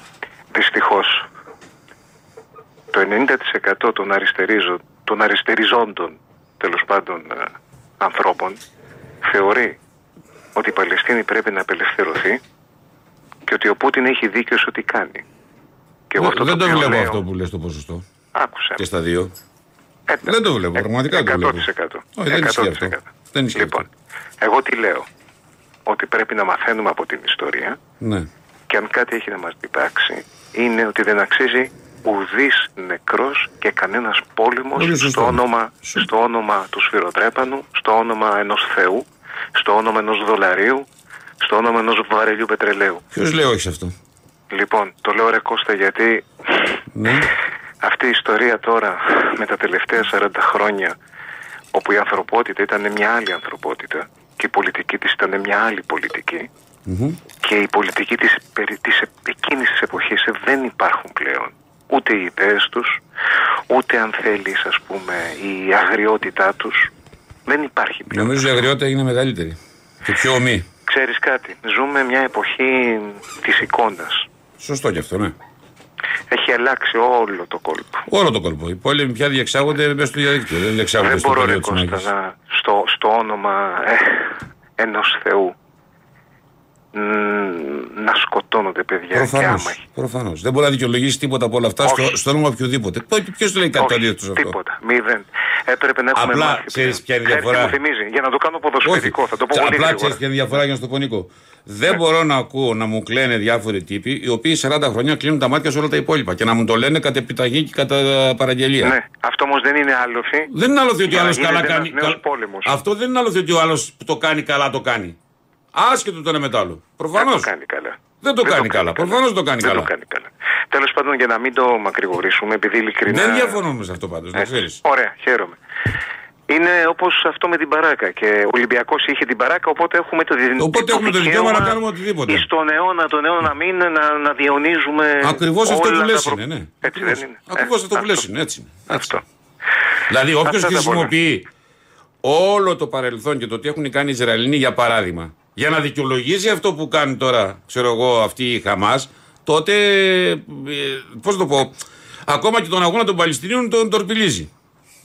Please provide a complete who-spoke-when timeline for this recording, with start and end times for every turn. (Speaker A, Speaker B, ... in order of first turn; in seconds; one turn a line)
Speaker A: 0.5-1.3
Speaker A: 2.9-8.6
Speaker A: 9.2-9.8
Speaker A: 10.6-12.4
Speaker A: 13.5-15.2
Speaker A: 16.1-17.2
Speaker B: 16.2-18.0
Speaker A: 18.4-18.8
Speaker B: 18.8-19.3
Speaker A: 20.1-23.0
Speaker B: 20.2-23.8
Speaker A: 23.6-23.9
Speaker A: 24.4-25.1
Speaker A: 25.9-27.8
Speaker B: 28.0-28.3
Speaker A: 28.7-40.9
Speaker B: 34.8-36.1
Speaker A: 41.4-43.0
Speaker B: 43.1-43.9
Speaker A: 44.5-47.2
Speaker B: 47.0-47.3
Speaker A: 47.8-51.0
Speaker A: 51.7-56.5
Speaker B: 56.9-57.2
Speaker A: 57.4-63.0
Speaker A: 63.7-66.9
Speaker A: 67.5-68.5
Speaker B: 68.1-70.7
Speaker A: 70.9-74.3
Speaker B: 74.6-75.3
Speaker A: 76.3-78.0
Speaker B: 78.1-82.1
Speaker A: 81.0-85.5
Speaker A: 86.9-89.8
Speaker B: 89.1-94.5
Speaker A: 91.8-92.2
Speaker A: 93.8-100.2
Speaker B: 96.2-97.8
Speaker B: 98.8-108.9
Speaker A: 108.8-110.5
Speaker B: 110.5-115.2
Speaker A: 111.1-112.8
Speaker B: 115.7-117.5
Speaker A: 117.2-123.6
Speaker B: 118.2-119.9
Speaker B: 123.1-124.8
Speaker A: 124.4-125.6
Speaker A: 126.5-138.2
Speaker B: 130.6-132.4
Speaker B: 135.2-139.2
Speaker A: 138.9-139.2
Speaker B: 140.1-141.5
Speaker A: 140.4-141.1
Speaker B: 142.2-151.8
Speaker B: 152.3-154.5